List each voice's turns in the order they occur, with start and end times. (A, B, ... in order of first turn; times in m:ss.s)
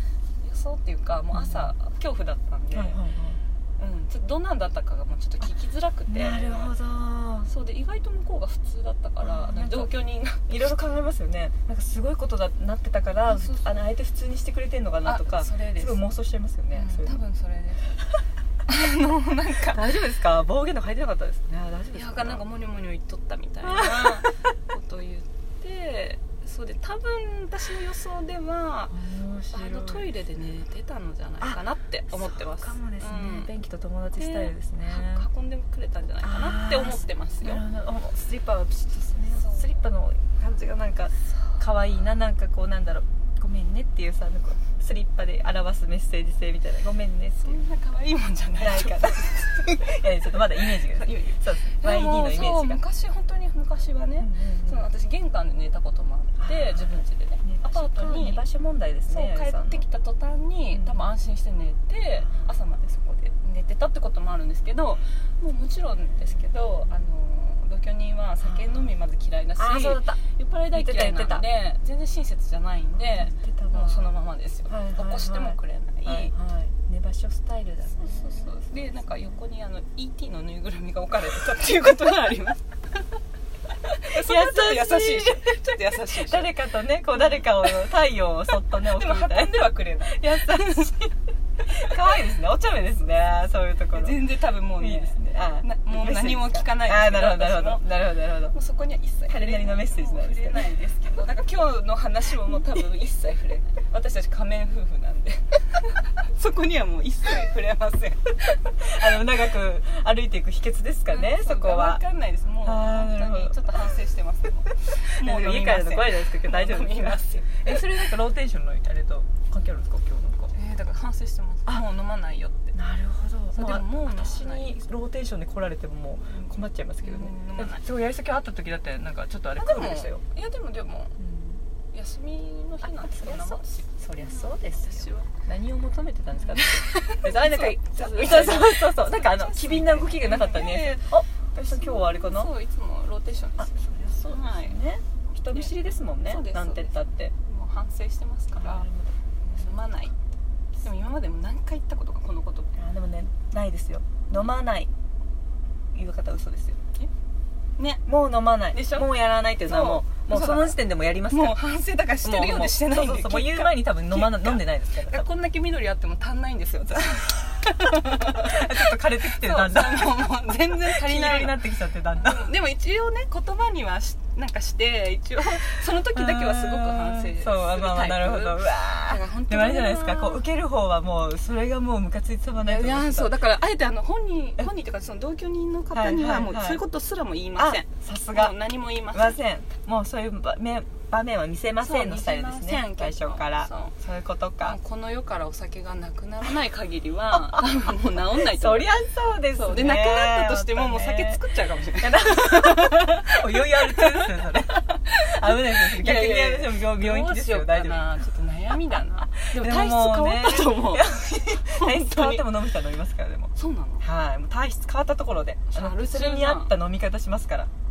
0:00.4-0:03.0 A
0:01.3-0:01.7 B
0:02.7-0:03.4 B
0:03.8-0:06.8 A
0:06.1-0:07.5 B
0:07.5-0:10.6 A
0:09.2-0:10.0 B
0:10.5-0:17.2 B
0:13.3-0:13.9 A
0:15.0-0:16.0 A
0:16.7-0:18.0 A
0:18.7-0:19.8 A
0:19.7-0:22.4 B
0:21.9-0:29.0 A
0:23.6-0:24.4 B
0:28.9-0:30.1 B
0:29.5-0:33.5 A
0:32.1-0:35.3 B
0:34.1-0:37.6 A
0:36.2-0:47.6 B
0:39.3-0:39.8 A
0:47.4-0:58.4 A
0:48.6-0:52.8 B
0:54.2-0:54.8 B
0:56.4-0:59.8 B
0:59.1-1:16.3 A
1:00.7-1:01.0 B
1:02.2-1:02.5 B
1:09.6-1:10.2 B
1:10.7-1:11.5 B
1:13.0-1:14.1 B
1:14.7-1:19.4 B
1:17.9-1:23.1 A
1:23.8-1:26.6 A
1:24.1-1:30.9 B
1:27.1-1:27.8 A
1:28.7-1:32.0 A
1:31.6-1:38.6 B
1:33.9-1:48.7 A
1:39.3-1:40.7 B
1:48.8-1:52.0 B
1:51.1-1:57.8 A
1:52.6-1:53.6 B
1:55.2-2:00.5 B
2:00.5-2:02.7 A
2:02.7-2:10.2 B
2:03.5-2:04.8 A
2:06.3-2:07.8 A
2:09.6-2:11.2 A
2:11.2-2:11.6 B
2:11.9-2:15.4 A
2:12.8-2:22.5 B
2:16.4-2:24.8 A
2:23.6-2:27.3 B
2:25.5-2:28.9 A
2:28.6-2:29.6 B
2:29.4-2:30.1 A
2:30.8-2:32.7 A
2:32.8-2:34.9 B
2:35.9-2:36.8 B
2:37.8-2:38.0 A
2:38.1-2:41.6 B
2:38.7-2:51.6 A
2:42.2-2:45.3 B
2:48.4-2:52.5 B
2:52.2-3:00.4 A
2:56.1-3:03.5 B
3:02.6-3:09.4 A
3:05.9-3:06.8 B
3:07.6-3:08.6 B
3:09.1-3:14.8 B
3:11.8-3:14.0 A
3:14.6-3:18.9 A
3:18.4-3:28.1 B
3:19.5-3:32.6 A
3:29.5-3:37.7 B
3:33.6-3:34.0 A
3:35.7-3:36.8 A